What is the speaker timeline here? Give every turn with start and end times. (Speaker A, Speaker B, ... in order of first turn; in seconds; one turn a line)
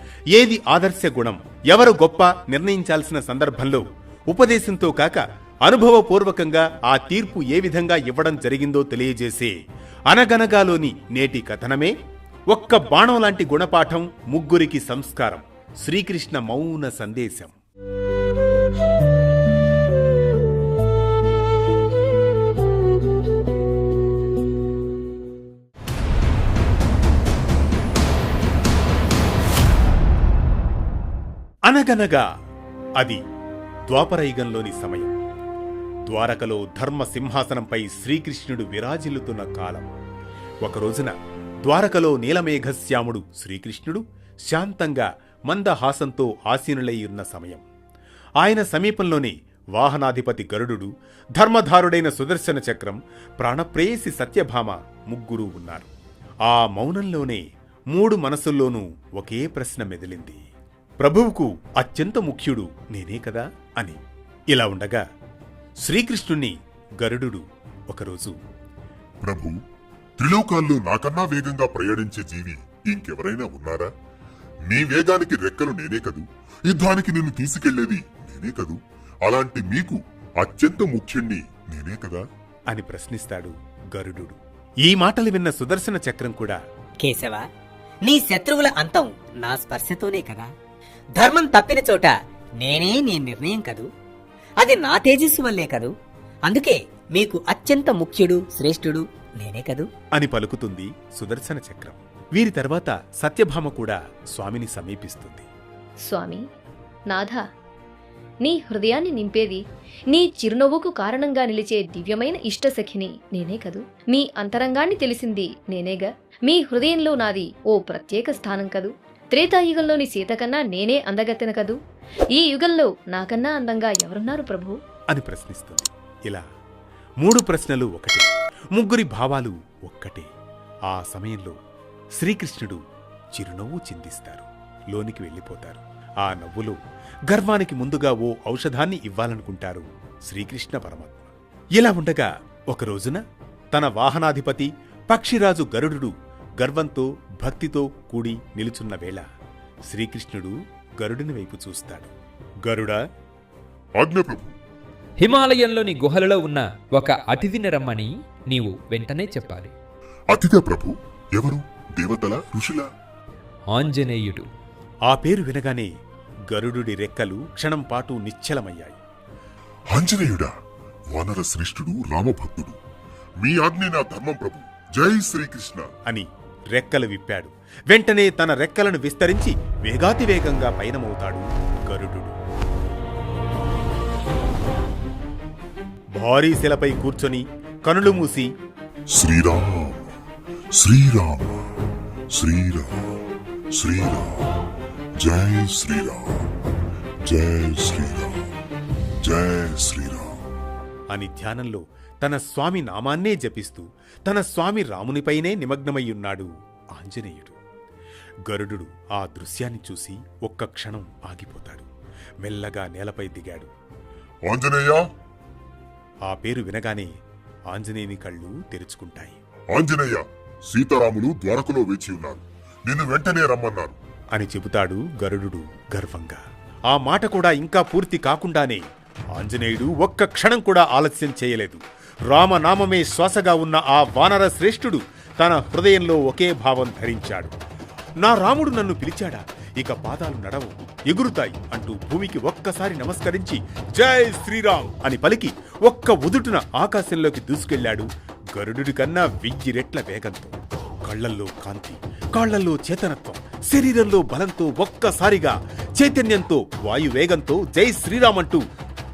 Speaker A: 0.3-9.5
Speaker A: 10.1-11.9
Speaker A: 12.5-17.6
Speaker A: 31.7-32.2
Speaker A: 33.9-35.1
Speaker A: 36.0-39.9
Speaker A: 40.6-47.6
Speaker A: 48.4-55.9
Speaker A: 56.4-60.4
Speaker A: 61.0-65.0
Speaker A: 65.8-68.4
Speaker B: 69.2-69.5
Speaker B: 70.2-73.9
Speaker B: 74.6-82.2
Speaker A: 82.7-86.6
Speaker C: 87.0-87.5
Speaker C: 88.0-90.5
Speaker C: 91.2-93.9
Speaker C: 94.6-95.9
Speaker C: 96.4-99.9
Speaker A: 100.1-105.5
Speaker D: 106.0-106.4
Speaker D: 107.1-107.4
Speaker D: 108.4-121.8
Speaker D: 122.3-124.8
Speaker A: 125.1-126.4
Speaker A: 127.2-130.3
Speaker A: 130.9-131.6
Speaker A: 132.2-132.8
Speaker A: 133.3-136.8
Speaker A: 137.3-143.2
Speaker A: 143.7-149.2
Speaker A: 149.9-152.1
Speaker A: 152.6-153.0
Speaker B: 154.0-154.5
Speaker E: 155.2-159.7
Speaker B: 160.3-162.8
Speaker E: 163.7-164.5
Speaker A: 165.1-165.9
Speaker A: 166.5-169.0
Speaker B: 169.9-170.5
Speaker B: 171.1-172.8
Speaker B: 173.4-175.9
Speaker A: 176.1-182.3
Speaker A: 186.1-188.5
Speaker B: 189.1-190.1
Speaker B: 190.7-191.7
Speaker B: 192.3-193.1
Speaker B: 193.7-194.5
Speaker B: 195.2-196.5
Speaker B: 197.2-198.5
Speaker B: 199.2-200.4
Speaker A: 201.1-207.6
Speaker A: 208.5-211.9
Speaker A: 212.4-213.7
Speaker B: 214.5-215.0
Speaker A: 216.3-217.1
Speaker A: 217.7-219.4
Speaker B: 219.7-224.0
Speaker A: 224.3-228.8
Speaker A: 229.3-237.5
Speaker A: 238.2-258.6